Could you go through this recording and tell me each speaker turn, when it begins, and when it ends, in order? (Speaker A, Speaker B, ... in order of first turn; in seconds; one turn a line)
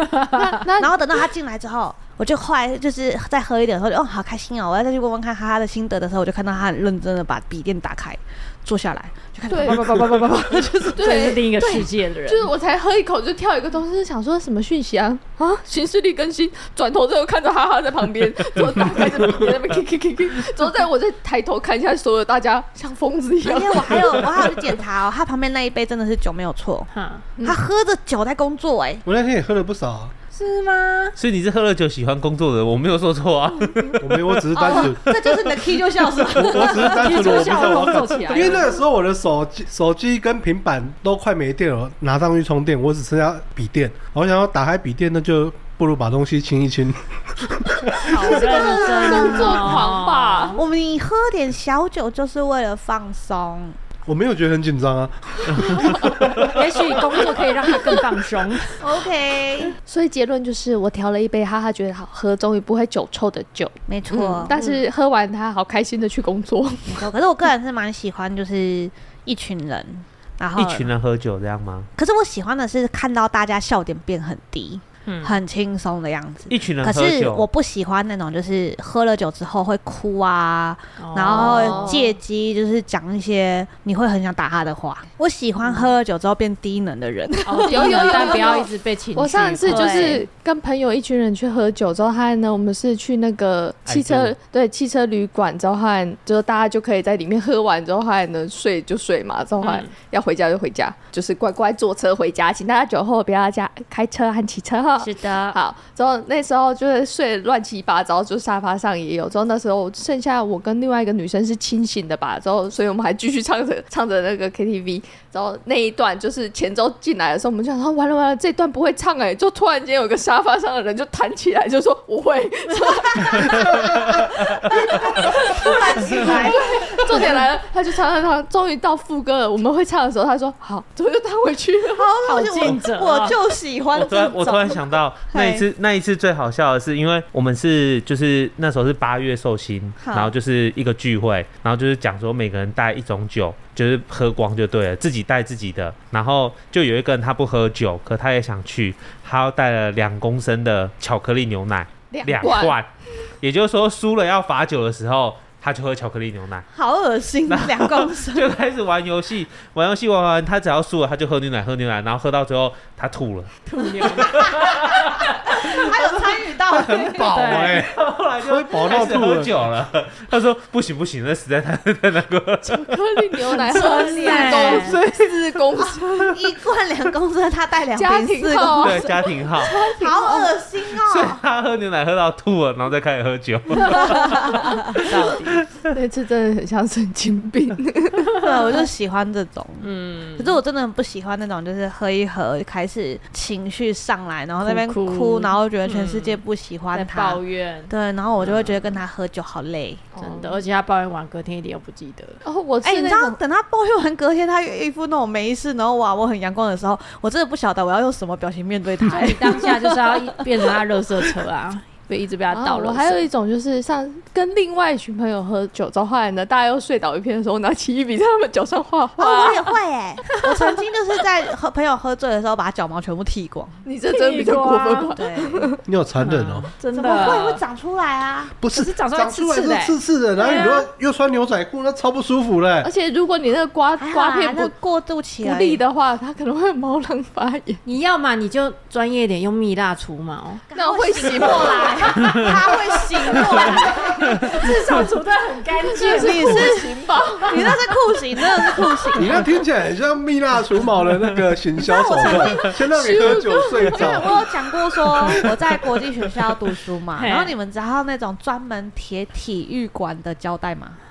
Speaker A: 0.4-0.9
Speaker B: 0.8-11.4
Speaker A: 9.5-9.8
Speaker C: 9.6-12.5
Speaker A: 11.0-24.2
Speaker B: 23.4-26.9
Speaker C: 26.9-27.3
Speaker B: 27.4-29.0
Speaker D: 29.0-30.1
Speaker C: 30.3-31.2
Speaker E: 31.2-34.3
Speaker D: 34.0-35.5
Speaker B: 34.5-37.3
Speaker D: 36.3-48.1
Speaker C: 36.6-38.7
Speaker C: 48.0-50.6
Speaker A: 48.1-50.6
Speaker B: 48.2-49.8
Speaker B: 50.6-53.8
Speaker D: 54.1-56.6
Speaker A: 55.6-56.1
Speaker C: 56.1-58.7
Speaker A: 57.7-58.0
Speaker B: 58.8-59.7
Speaker A: 59.9-63.8
Speaker B: 63.9-64.5
Speaker C: 64.1-64.8
Speaker A: 64.4-67.1
Speaker B: 66.9-70.9
Speaker E: 70.6-71.9
Speaker B: 72.0-88.7
Speaker C: 75.1-75.3
Speaker E: 76.5-77.5
Speaker C: 81.0-82.1
Speaker A: 81.2-82.1
Speaker C: 87.5-90.2
Speaker A: 87.6-132.1
Speaker B: 89.7-90.2
Speaker E: 93.9-94.4
Speaker C: 99.6-99.9
Speaker C: 105.0-105.6
Speaker E: 124.1-124.8
Speaker B: 124.7-127.3
Speaker B: 131.9-135.7
Speaker C: 132.2-133.4
Speaker E: 133.9-152.9
Speaker B: 140.0-140.3
Speaker A: 152.1-152.8
Speaker E: 153.4-156.7
Speaker B: 156.7-158.5
Speaker E: 157.5-166.1
Speaker C: 163.7-164.8
Speaker B: 164.7-167.3
Speaker D: 166.8-169.5
Speaker E: 166.9-173.4
Speaker C: 167.3-167.9
Speaker A: 172.7-176.4
Speaker C: 173.5-175.0
Speaker B: 173.7-175.0
Speaker B: 175.8-181.4
Speaker A: 178.0-180.5
Speaker E: 178.8-179.7
Speaker E: 181.1-185.9
Speaker A: 183.8-184.2
Speaker C: 185.0-185.6
Speaker A: 185.9-188.7
Speaker B: 188.4-200.1
Speaker C: 189.8-190.6
Speaker C: 194.6-196.4
Speaker C: 196.9-199.0
Speaker A: 200.2-200.6
Speaker C: 200.2-202.4
Speaker A: 202.4-203.4
Speaker B: 202.8-210.4
Speaker C: 209.1-213.2
Speaker A: 212.5-219.8
Speaker B: 219.2-223.8
Speaker A: 220.4-220.9
Speaker A: 223.8-225.8
Speaker C: 224.1-225.2
Speaker B: 225.2-225.7
Speaker D: 225.8-226.7
Speaker C: 226.2-227.6
Speaker B: 226.9-228.5
Speaker D: 228.6-232.9
Speaker C: 228.7-230.8
Speaker A: 230.4-230.8
Speaker A: 232.8-234.7
Speaker B: 234.0-235.8
Speaker A: 235.4-237.8
Speaker C: 237.8-240.6
Speaker B: 240.7-244.5
Speaker A: 240.7-242.4
Speaker A: 243.3-243.8
Speaker C: 243.5-246.8
Speaker A: 245.8-247.8
Speaker B: 246.1-249.4
Speaker D: 249.2-255.6
Speaker B: 251.8-261.0
Speaker A: 252.2-254.3
Speaker C: 257.1-257.6